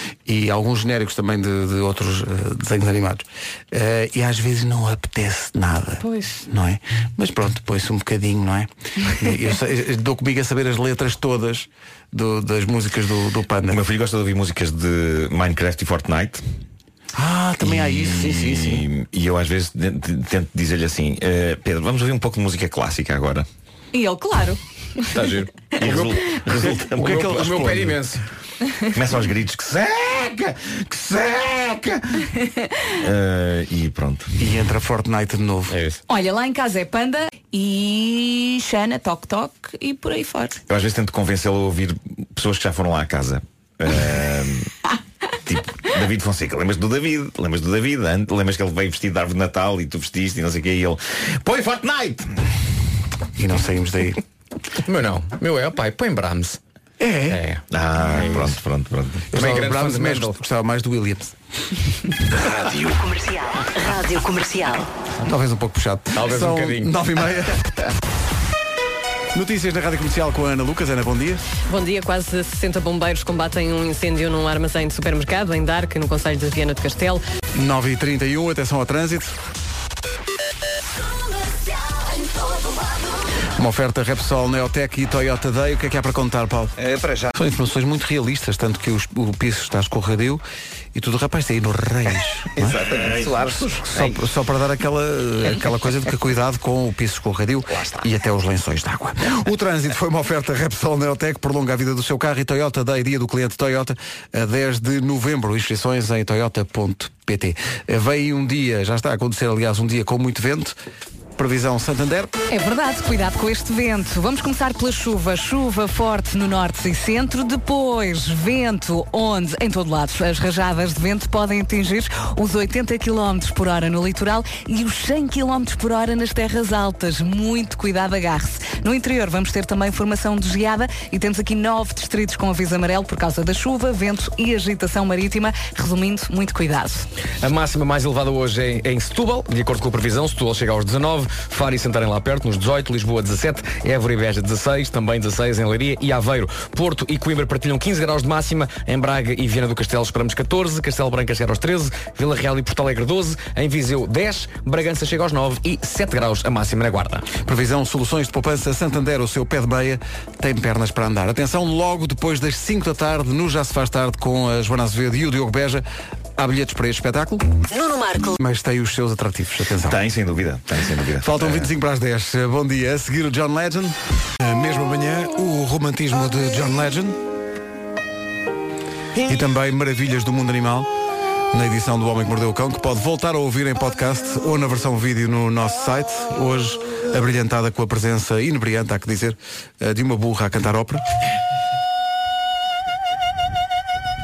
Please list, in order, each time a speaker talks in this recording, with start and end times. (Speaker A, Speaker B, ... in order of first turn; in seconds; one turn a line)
Speaker A: 0.2-13.8
Speaker B: 13.7-16.4
Speaker A: 17.1-18.9
Speaker B: 17.6-23.5
Speaker C: 23.9-25.1
Speaker D: 25.1-26.2
Speaker B: 25.8-27.6
Speaker A: 26.5-28.0
Speaker D: 27.1-28.2
Speaker B: 28.9-32.2
Speaker B: 33.0-34.3
Speaker A: 34.4-35.8
Speaker D: 35.7-36.0
Speaker C: 36.1-40.6
Speaker B: 40.7-44.7
Speaker B: 45.4-52.3
Speaker A: 53.4-54.2
Speaker D: 54.9-56.6
Speaker A: 57.0-57.4
Speaker D: 57.3-57.6
Speaker B: 57.7-59.3
Speaker A: 59.3-61.4
Speaker D: 59.3-60.3
Speaker E: 62.6-64.9
Speaker A: 65.2-67.9
Speaker D: 66.2-66.9
Speaker A: 69.3-71.4
Speaker F: 71.7-77.2
Speaker A: 77.5-79.3
Speaker A: 83.5-86.7
Speaker G: 86.8-87.3
Speaker A: 87.3-90.4
Speaker A: 90.9-92.8
Speaker G: 92.6-94.1
Speaker A: 93.9-110.7
Speaker A: 111.4-112.3
Speaker C: 112.5-137.1
Speaker D: 137.4-157.3
Speaker A: 157.4-165.8
Speaker A: 166.4-167.5
Speaker E: 167.7-168.3
Speaker A: 168.3-170.0
Speaker B: 169.8-171.7
Speaker A: 171.2-177.2
Speaker A: 179.2-180.9
Speaker A: 181.5-191.0